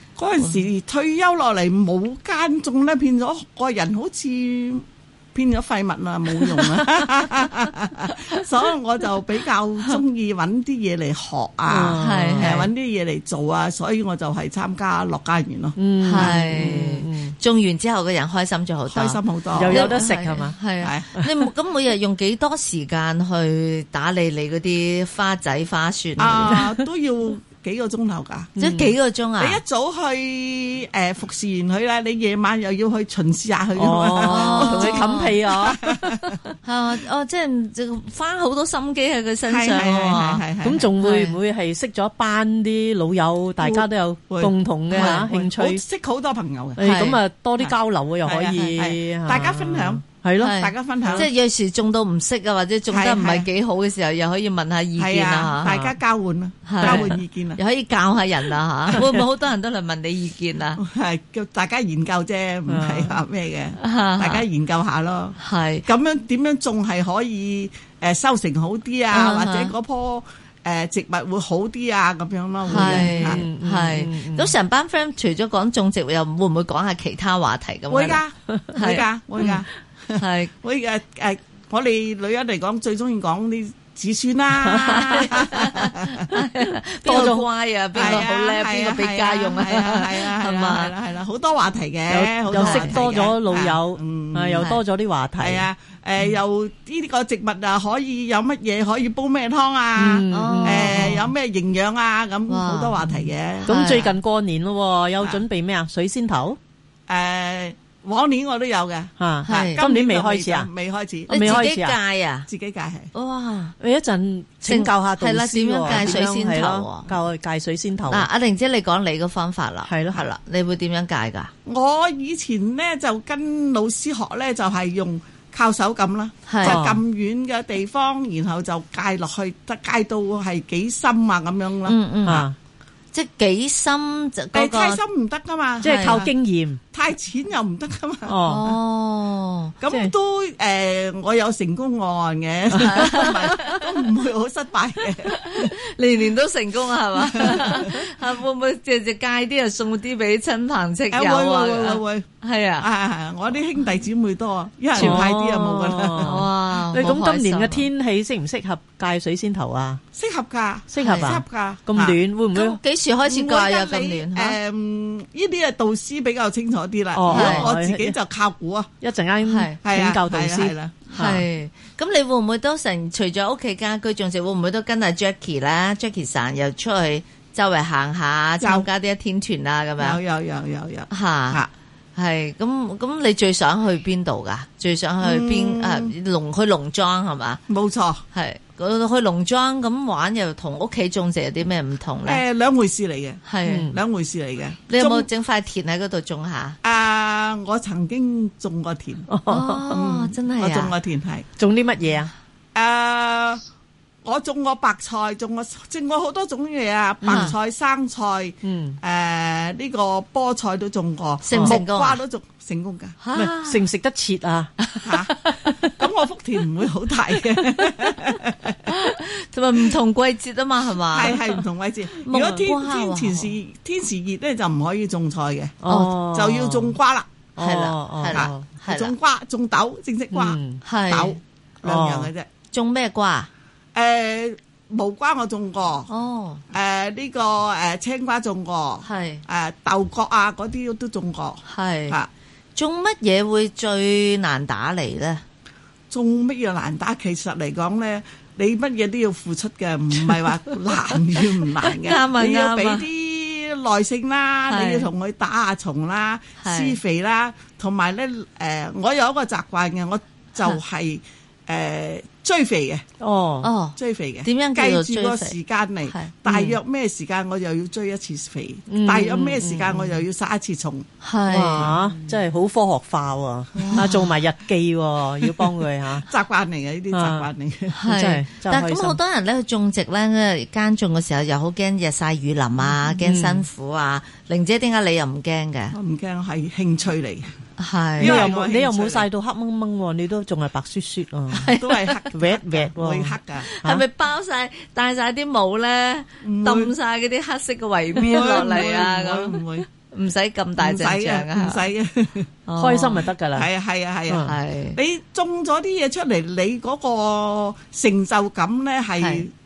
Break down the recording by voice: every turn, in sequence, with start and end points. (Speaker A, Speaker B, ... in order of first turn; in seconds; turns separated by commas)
Speaker A: 0.2-16.8, Speaker B: 11.7-12.6, Speaker C: 12.0-12.7, Speaker B: 15.8-17.3, Speaker C: 16.0-26.6, Speaker A: 18.9-19.9, Speaker B: 19.6-20.6, Speaker A: 20.8-21.1, Speaker A: 26.2-28.5, Speaker B: 28.6-28.9, Speaker C: 28.6-29.6, Speaker A: 29.4-36.4, Speaker B: 33.8-36.3, Speaker C: 34.2-35.4, Speaker C: 36.6-40.4, Speaker A: 39.5-40.9, Speaker B: 40.6-45.8, Speaker C: 41.0-41.4, Speaker A: 43.6-46.8, Speaker C: 44.9-45.2, Speaker B: 46.8-51.2, Speaker C: 46.8-47.2, Speaker A: 48.2-51.3, Speaker C: 50.4-55.8, Speaker A: 52.9-53.5, Speaker A: 55.0-57.6, Speaker B: 55.7-55.9, Speaker C: 56.6-60.8, Speaker B: 56.8-57.1, Speaker A: 60.8-73.4, Speaker B: 62.7-63.2, Speaker C: 63.8-64.4, Speaker C: 65.4-65.8, Speaker C: 69.1-69.7, Speaker B: 72.7-74.5, Speaker C: 72.7-78.2, Speaker A: 77.9-86.3, Speaker C: 78.7-79.6, Speaker C: 80.2-80.5, Speaker C: 84.8-90.9, Speaker B: 84.8-85.2, Speaker B: 87.0-87.4, Speaker A: 87.9-94.7, Speaker B: 88.0-88.2, Speaker B: 92.1-95.7, Speaker C: 92.5-93.0, Speaker A: 95.4-103.7, Speaker B: 100.0-101.2, Speaker C: 100.3-101.2, Speaker C: 102.5-104.1, Speaker B: 103.7-106.6, Speaker A: 107.1-111.7, Speaker B: 109.2-110.7, Speaker C: 109.5-109.8, Speaker B: 111.3-112.0, Speaker C: 111.3-112.5, Speaker A: 112.5-113.1, Speaker C: 113.1-113.8, Speaker B: 113.8-118.3, Speaker C: 114.6-117.1, Speaker A: 115.9-116.2, Speaker C: 118.1-121.5, Speaker B: 119.8-120.2, Speaker A: 121.7-131.9, Speaker C: 126.5-126.9, Speaker B: 126.6-127.0, Speaker C: 131.8-132.5, Speaker B: 132.2-132.5, Speaker C: 133.1-135.0, Speaker A: 134.5-136.3, Speaker B: 135.8-136.8, Speaker C: 135.8-136.2, Speaker A: 136.9-138.8, Speaker B: 138.2-138.7, Speaker C: 138.4-139.8, Speaker A: 139.8-145.7, Speaker B: 139.9-140.1, Speaker B: 142.8-143.5, Speaker C: 142.8-143.8, Speaker C: 145.3-152.9, Speaker A: 147.2-147.9, Speaker A: 151.1-152.2, Speaker A: 152.8-156.4, Speaker B: 154.9-160.0, Speaker C: 154.9-155.2, Speaker C: 156.2-157.9, Speaker A: 160.1-162.2, Speaker B: 160.9-162.8, Speaker C: 161.0-161.3, Speaker C: 162.5-164.6, Speaker A: 163.3-168.9, Speaker B: 167.1-168.2, Speaker C: 167.3-167.7, Speaker B: 169.0-171.4, Speaker C: 169.4-169.8, Speaker A: 169.8-171.4, Speaker C: 171.2-180.2, Speaker A: 178.6-178.8, Speaker A: 180.0-181.7, Speaker C: 181.1-181.6, Speaker C: 182.2-187.6, Speaker A: 185.2-186.1, Speaker A: 187.7-188.2, Speaker C: 188.3-192.4, Speaker A: 192.2-195.2, Speaker C: 193.5-193.9, Speaker B: 193.6-194.0, Speaker C: 194.9-196.8, Speaker A: 196.8-199.3, Speaker B: 199.3-199.8, Speaker C: 199.5-200.9, Speaker A: 199.9-201.4, Speaker B: 201.6-202.3, Speaker A: 202.7-203.6, Speaker A: 204.2-213.2, Speaker B: 207.2-207.5, Speaker C: 207.3-207.5, Speaker B: 208.6-209.0, Speaker C: 211.4-212.2, Speaker C: 213.2-213.8, Speaker B: 213.3-214.7, Speaker C: 214.8-215.8, Speaker A: 215.0-215.3, Speaker A: 215.9-218.9, Speaker C: 218.9-221.6, Speaker A: 221.1-227.3, Speaker C: 222.2-223.5, Speaker B: 225.8-226.9, Speaker C: 225.9-226.1, Speaker B: 227.6-228.6, Speaker C: 227.6-229.1, Speaker A: 228.3-232.5, Speaker B: 230.3-230.8, Speaker C: 230.8-231.4, Speaker B: 231.8-232.3, Speaker C: 232.7-233.5, Speaker A: 233.9-236.1, Speaker C: 236.1-236.6, Speaker A: 236.7-242.3, Speaker C: 239.0-239.4, Speaker C: 241.7-242.2, Speaker C: 242.8-245.4, Speaker A: 246.1-263.0, Speaker C: 251.9-253.1, Speaker C: 254.7-255.1, Speaker C: 256.6-257.0, Speaker B: 263.2-263.7, Speaker C: 263.6-265.5, Speaker A: 264.0-271.1, Speaker C: 266.1-266.8, Speaker B: 268.9-269.9, Speaker C: 269.3-270.1, Speaker C: 271.2-272.3, Speaker B: 271.5-276.2, Speaker C: 273.7-274.1, Speaker A: 275.4-275.7, Speaker A: 276.2-278.0, Speaker B: 277.1-277.5, Speaker C: 277.9-285.9, Speaker B: 278.1-279.2, Speaker B: 283.2-283.6, Speaker A: 285.9-287.5, Speaker C: 287.8-288.5, Speaker A: 288.2-289.2, Speaker B: 288.2-291.7, Speaker A: 291.5-293.7, Speaker C: 291.6-292.3, Speaker B: 292.3-294.0, Speaker C: 293.7-301.9, Speaker A: 296.4-296.9, Speaker A: 298.2-299.9, Speaker A: 300.8-302.5, Speaker C: 302.7-303.3, Speaker B: 302.8-303.7, Speaker A: 303.5-309.5, Speaker B: 304.3-304.5, Speaker C: 304.4-305.0, Speaker C: 309.2-309.4